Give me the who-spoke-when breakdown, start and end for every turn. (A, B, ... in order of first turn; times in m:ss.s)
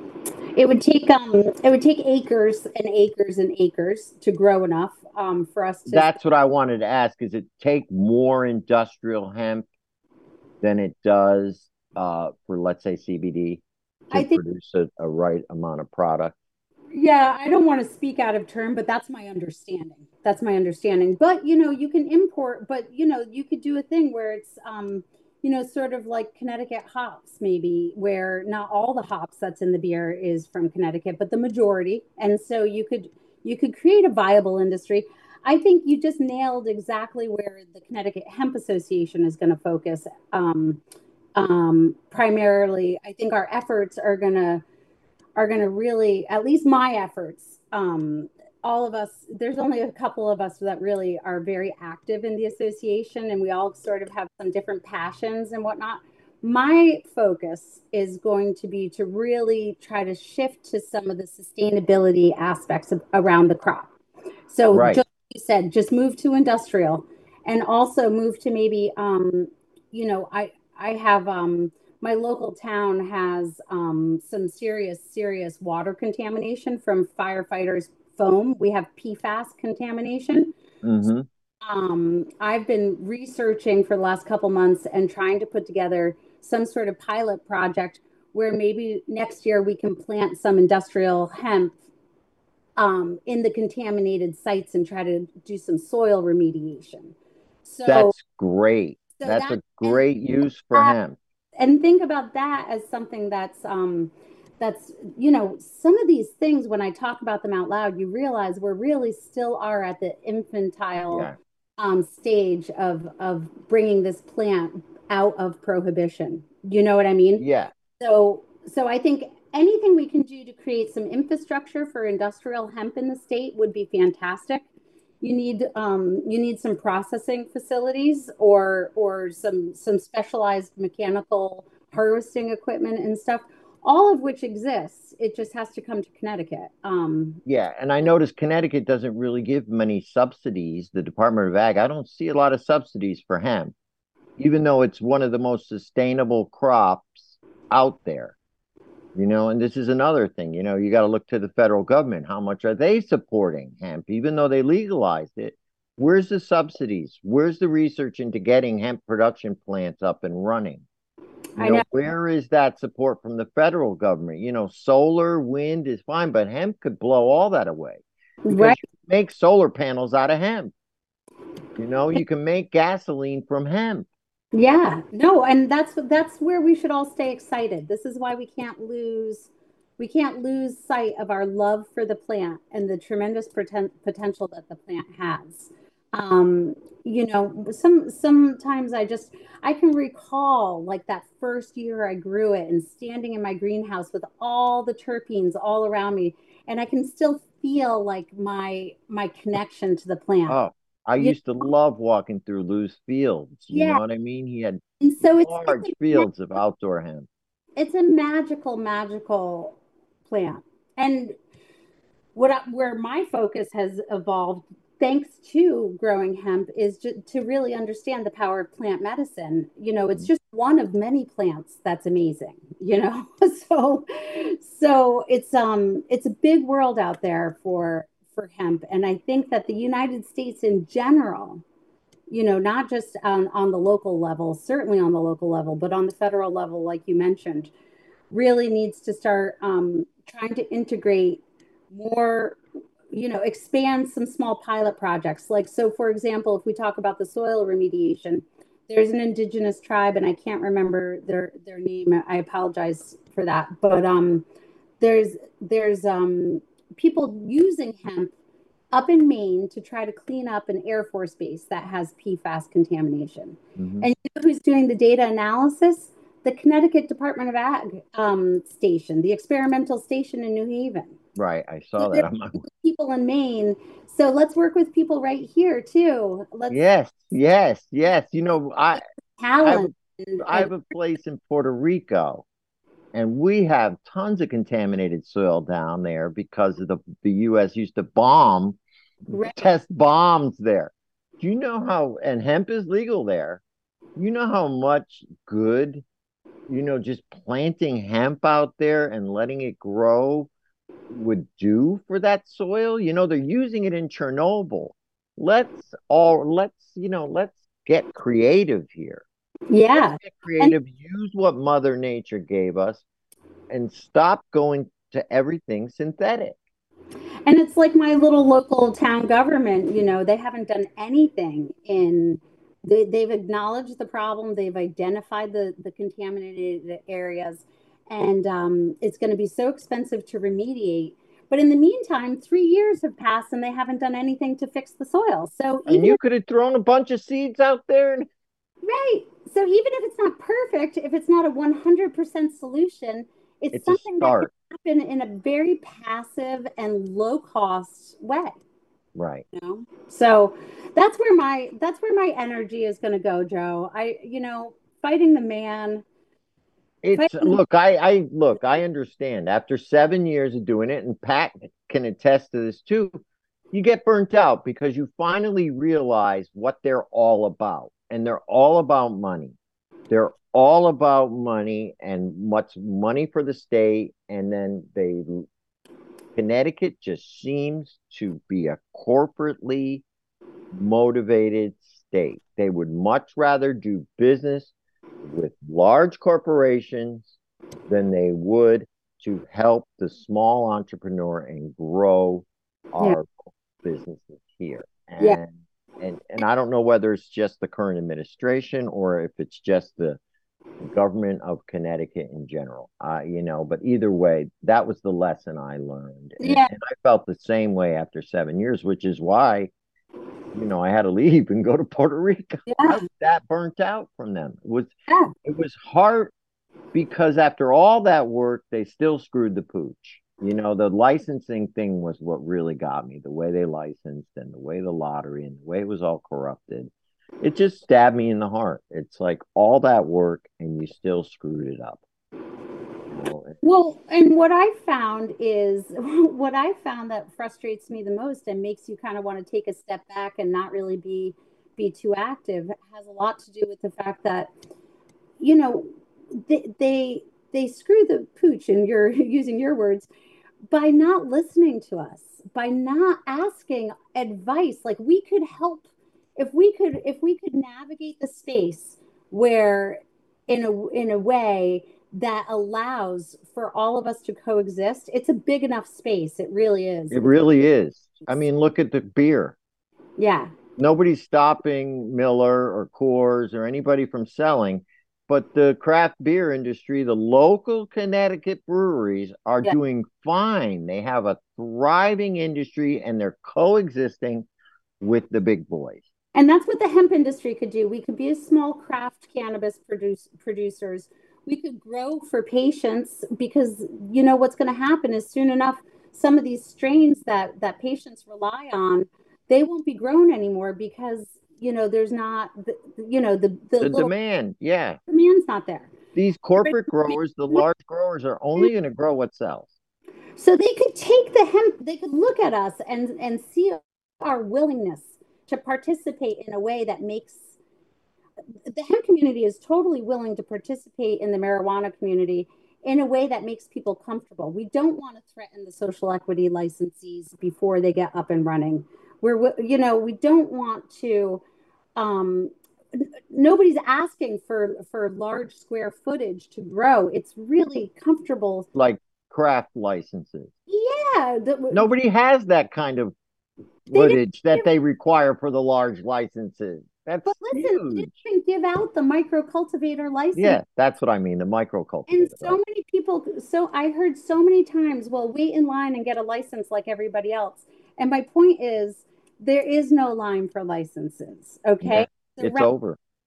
0:00.5-0:06.2 A
0:05.9-0:09.7 B
0:10.6-0:16.3 B
0:14.1-0:14.4 A
0:16.9-0:40.8 A
0:41.3-0:44.6 A
0:45.4-1:03.9 A
1:04.5-1:20.5 A
1:04.7-1:05.0 B
1:20.8-1:21.3 B
1:21.6-1:31.8 A
1:32.8-1:38.2 A
1:37.9-1:41.2 B
1:39.2-1:40.0 A
1:41.6-1:57.4 A
1:57.4-1:57.7 B
1:58.0-2:04.6 A
2:05.2-2:17.4 A
2:17.4-2:23.7 B
2:24.4-2:28.4 B
2:29.1-2:40.8 B
2:41.6-2:41.8 A
2:41.6-2:50.7 B
2:48.4-2:48.8 A
2:51.8-2:54.1 B
2:54.5-3:20.6 A
3:20.5-3:24.8 B
3:23.7-3:24.0 A
3:25.0-3:26.3 A
3:25.4-3:27.3 B
3:27.8-3:31.4 A
3:32.3-3:51.6 A
3:52.3-3:57.7 A
3:58.3-4:02.6 A
4:03.1-4:14.4 A
4:15.0-4:18.3 A
4:18.9-4:31.1 A
4:23.8-4:24.1 B
4:31.4-4:32.6 B
4:32.0-4:36.8 A
4:36.7-4:39.0 B
4:39.0-4:40.8 A
4:39.6-4:42.4 B
4:43.1-4:48.8 B
4:49.3-4:49.6 A
4:49.3-4:53.6 B
4:54.2-4:56.0 B
4:56.7-5:00.5 B
5:01.1-5:09.2 B
5:09.7-5:10.7 A
5:09.9-5:13.0 B
5:13.7-5:16.6 B
5:17.4-5:36.2 A
5:35.9-5:38.3 B
5:38.8-5:48.6 A
5:43.7-5:44.5 B
5:49.2-5:49.4 B
5:49.5-5:56.0 A
5:57.0-6:03.2 B
5:57.2-5:57.6 A
6:03.7-6:09.6 B
6:10.1-6:15.5 B
6:16.4-6:20.0 B
6:20.7-6:24.7 B
6:25.2-6:27.3 B
6:27.9-6:33.3 B
6:33.8-6:40.2 B
6:40.8-6:49.7 B
6:46.4-6:46.7 A
6:50.5-6:54.9 B
6:52.7-6:53.0 A
6:55.4-6:56.3 B
6:56.9-7:12.0 B
7:13.1-7:13.6 B
7:13.6-7:24.5 A
7:25.4-7:30.1 A
7:30.7-7:47.3 A
7:47.1-7:49.6 B
7:50.2-7:50.5 A
7:50.8-8:04.5 B
8:05.0-8:06.0 B
8:06.3-8:24.1 A
8:23.8-8:25.0 B
8:25.1-8:25.9 A
8:26.1-8:29.7 B
8:26.6-8:27.6 A
8:30.4-8:37.5 A
8:38.7-8:51.4 A
8:52.0-8:58.7 A
8:58.7-9:00.5 B
9:00.7-9:01.9 A
9:01.7-9:03.1 B
9:03.9-9:08.2 B
9:03.9-9:04.6 A
9:07.2-9:10.6 A
9:10.3-9:12.6 B
9:12.1-9:22.7 A
9:21.8-9:23.0 B